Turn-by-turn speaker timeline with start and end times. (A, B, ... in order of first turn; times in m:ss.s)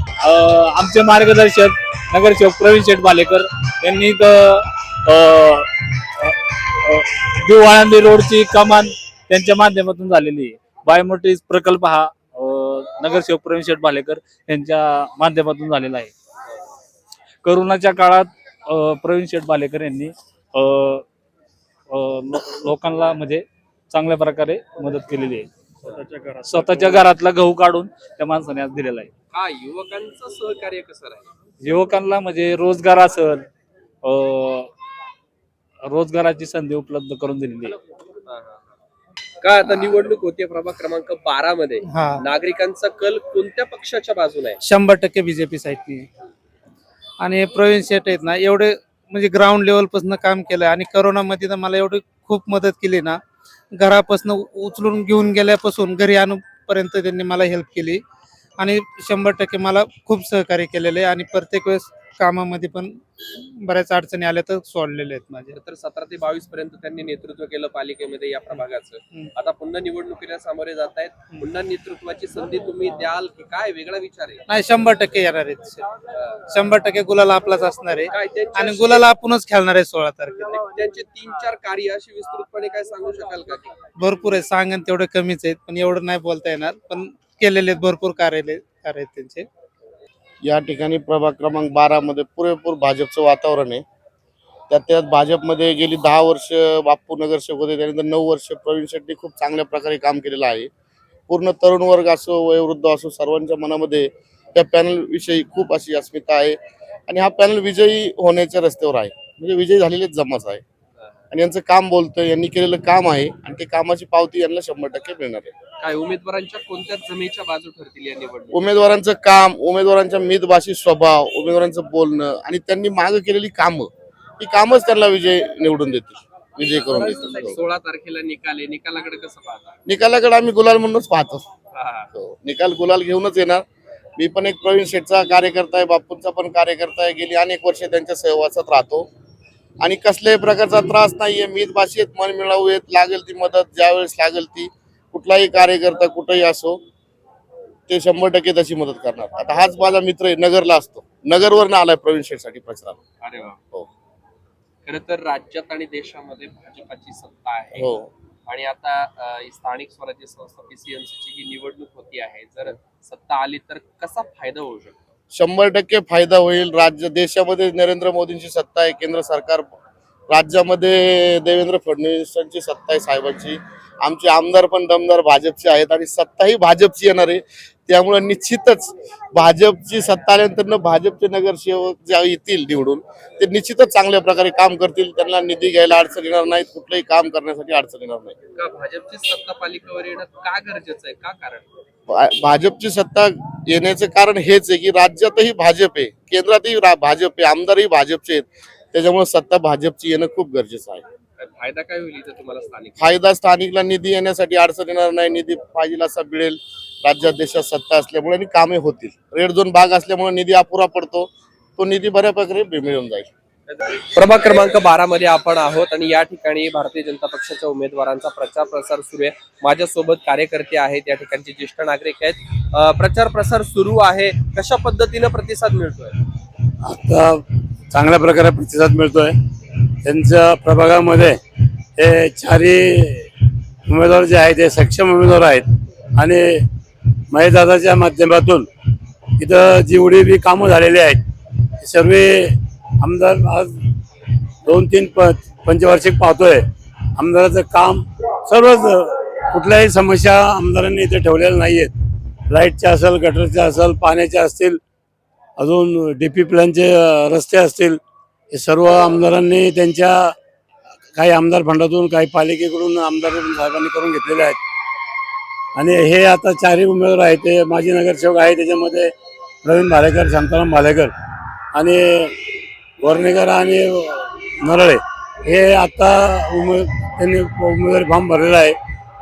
0:00.2-0:16.1 A
0:17.4-0:21.0 A
0:21.9-0:25.5 A
0:26.4-0:29.1 A
0:29.3-0:31.3 B
0:31.6-0:33.4 A
0:34.0-0:34.7 A
0:35.9-0:37.8 A
0:38.3-0:38.6 B
0:39.4-0:44.6 B
0:41.9-0:42.2 C
0:44.6-0:46.1 C
0:47.2-0:53.2 C
0:53.8-0:58.0 C
0:58.6-1:05.5 C
1:05.5-1:14.4 B
1:14.5-1:15.8 C
1:16.5-1:20.6 C
1:18.1-1:19.1 B
1:20.5-1:23.8 B
1:24.0-1:29.5 C
1:30.4-1:33.8 D
1:34.7-1:40.7 D
1:41.3-1:50.6 D
1:51.3-1:55.5 D
1:55.8-1:58.6 B
1:58.5-2:07.6 D
2:06.6-2:09.7 B
2:09.8-2:11.4 D
2:11.7-2:12.1 B
2:12.1-2:13.6 D
2:14.2-2:19.1 D
2:19.8-2:26.8 D
2:27.9-2:33.0 D
2:33.2-2:33.6 B
2:34.8-2:37.9 B
2:37.8-2:38.1 D
2:38.5-2:45.2 B
2:45.3-2:49.7 D
2:50.3-3:08.4 D
3:08.6-3:11.7 B
3:12.1-3:21.0 D
3:21.4-3:23.1 B
3:23.0-3:33.3 D
3:33.7-3:46.2 B
3:46.8-3:49.4 E
3:50.0-3:51.4 E
3:52.0-3:53.3 E
3:53.9-3:56.6 E
3:57.3-3:58.7 E
3:59.4-4:01.2 E
4:01.8-4:03.7 E
4:04.6-4:11.9 E
4:12.5-4:14.8 E
4:15.6-4:18.0 E
4:18.5-4:20.3 E
4:21.1-4:24.6 E
4:25.8-4:29.1 E
4:29.6-4:31.1 E
4:31.7-4:32.4 E
4:33.0-4:38.8 E